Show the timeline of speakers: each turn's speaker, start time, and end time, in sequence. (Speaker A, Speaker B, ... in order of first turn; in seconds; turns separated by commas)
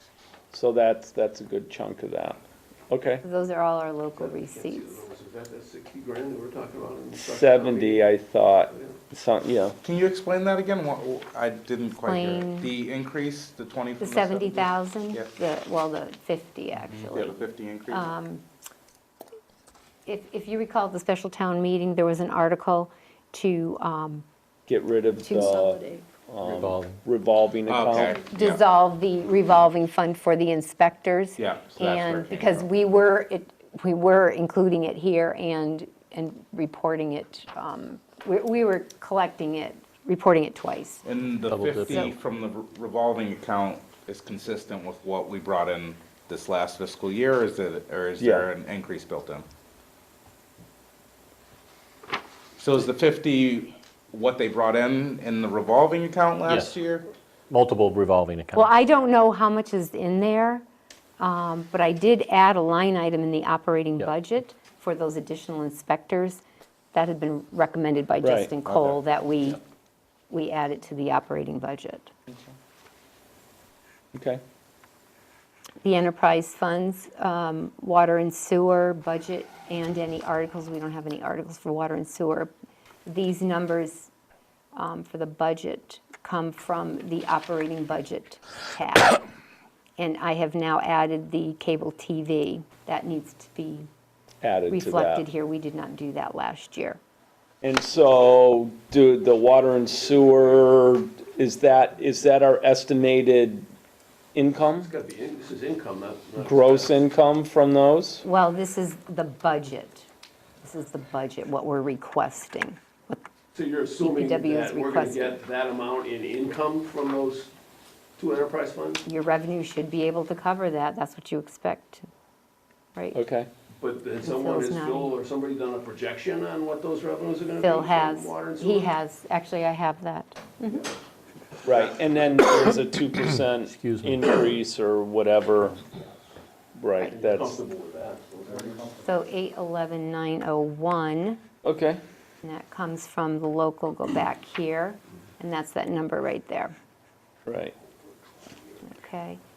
Speaker A: 0.5-2.4, Speaker A: 2.9-3.2, Speaker B: 3.2-5.0, Speaker C: 4.2-8.1, Speaker A: 7.1-9.8, Speaker C: 8.7-9.0, Speaker D: 9.8-15.3, Speaker B: 12.0-12.7, Speaker B: 14.0-18.4, Speaker D: 17.1-18.1, Speaker B: 20.1-24.2, Speaker A: 24.7-28.2, Speaker B: 25.2-26.0, Speaker E: 26.4-27.0, Speaker D: 27.7-28.6, Speaker B: 28.1-41.0, Speaker D: 31.4-32.7, Speaker D: 41.0-49.5, Speaker E: 41.5-42.1, Speaker B: 41.9-42.1, Speaker A: 48.2-48.5, Speaker D: 52.6-57.1, Speaker E: 56.4-56.7, Speaker E: 57.5-58.7, Speaker B: 58.5-60.6, Speaker B: 61.2-66.4, Speaker B: 66.9-69.6, Speaker A: 68.2-68.5, Speaker D: 68.7-69.0, Speaker B: 70.3-72.1, Speaker A: 74.1-74.4, Speaker B: 75.8-82.5, Speaker B: 83.0-84.1, Speaker B: 84.7-89.2, Speaker B: 90.0-93.9, Speaker A: 94.4-95.2, Speaker B: 94.7-97.0, Speaker A: 97.6-103.7, Speaker A: 104.3-104.9, Speaker C: 104.8-106.9, Speaker A: 106.4-108.2, Speaker B: 108.2-110.1, Speaker B: 110.6-113.2, Speaker C: 113.5-117.5, Speaker B: 114.0-115.4, Speaker C: 118.2-119.0, Speaker B: 119.0-122.1, Speaker A: 123.1-123.5, Speaker C: 123.8-128.9, Speaker B: 124.2-125.1, Speaker B: 127.6-130.9, Speaker A: 131.6-135.8, Speaker E: 133.7-134.2, Speaker A: 136.8-137.6, Speaker C: 137.0-138.9, Speaker B: 139.0-141.4, Speaker A: 141.6-142.0, Speaker B: 142.4-146.7, Speaker A: 147.4-147.7, Speaker B: 148.8-149.4